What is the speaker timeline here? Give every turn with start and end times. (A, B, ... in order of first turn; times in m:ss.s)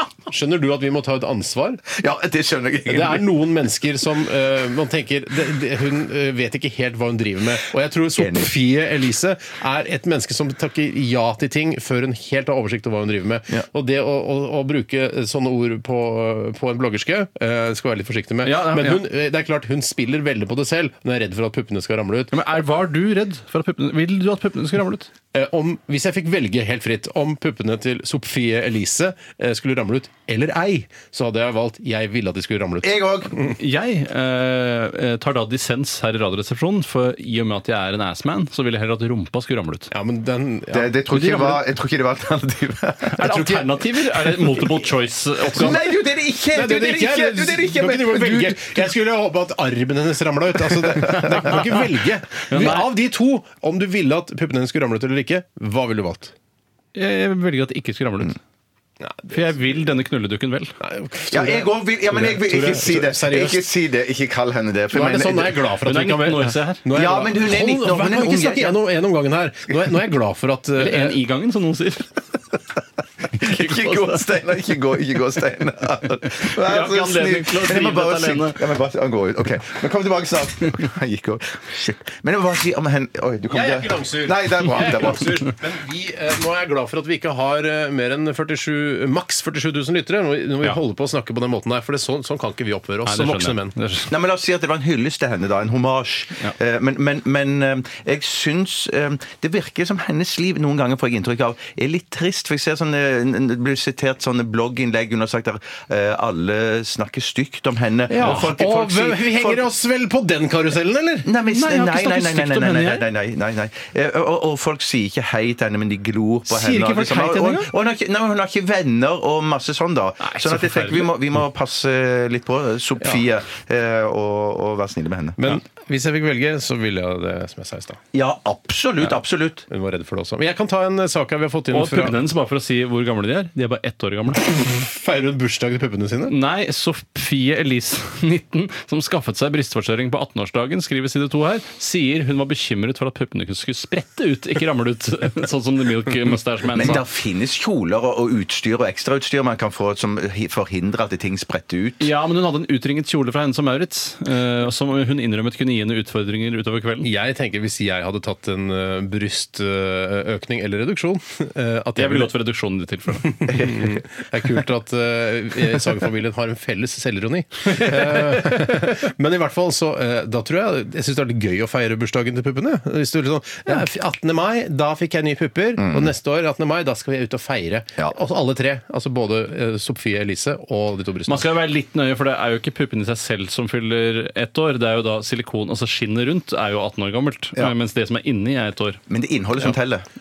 0:00.3-0:01.8 A
0:01.9-0:03.3 B
0:02.9-0:22.3 A
0:08.2-0:08.5 B
0:18.4-0:19.1 C
0:22.3-0:25.1 C
0:25.3-0:33.6 A
0:32.8-0:33.3 B
0:33.4-0:39.9 C
0:39.9-0:41.6 A
0:40.7-0:43.4 B
0:43.1-0:45.8 C
0:43.2-0:43.8 A
0:44.6-0:44.8 A
0:45.5-0:45.9 A
0:45.5-0:48.9 B
0:46.5-0:56.3 A
0:51.5-0:51.9 C
0:52.5-0:52.9 C
0:56.9-0:58.4 C
0:59.0-0:59.6 A
0:59.3-1:00.8 C
1:00.8-1:03.7 A
1:01.3-1:05.7 B
1:04.9-1:11.2 A
1:05.8-1:06.8 C
1:06.9-1:08.8 B
1:10.8-1:12.1 C
1:13.3-1:25.4 B
1:13.4-1:14.2 C
1:16.3-1:18.6 C
1:23.5-1:34.0 A
1:33.0-1:34.1 C
1:34.1-1:49.7 B
1:48.1-1:51.3 A
1:48.2-1:48.5 C
1:51.2-2:05.4 B
1:51.4-1:53.1 C
1:56.5-1:57.7 A
2:00.2-2:01.1 C
2:05.4-2:08.0 A
2:08.1-2:09.6 B
2:09.7-2:12.3 A
2:11.7-2:14.4 C
2:14.4-2:16.4 A
2:16.2-2:27.0 C
2:26.7-2:32.1 B
2:32.0-2:37.1 C
2:37.0-2:42.3 A
2:42.0-2:43.6 C
2:43.2-3:01.5 A
2:43.5-2:44.0 B
2:55.8-2:56.1 B
3:01.3-3:09.0 C
3:09.1-3:10.1 B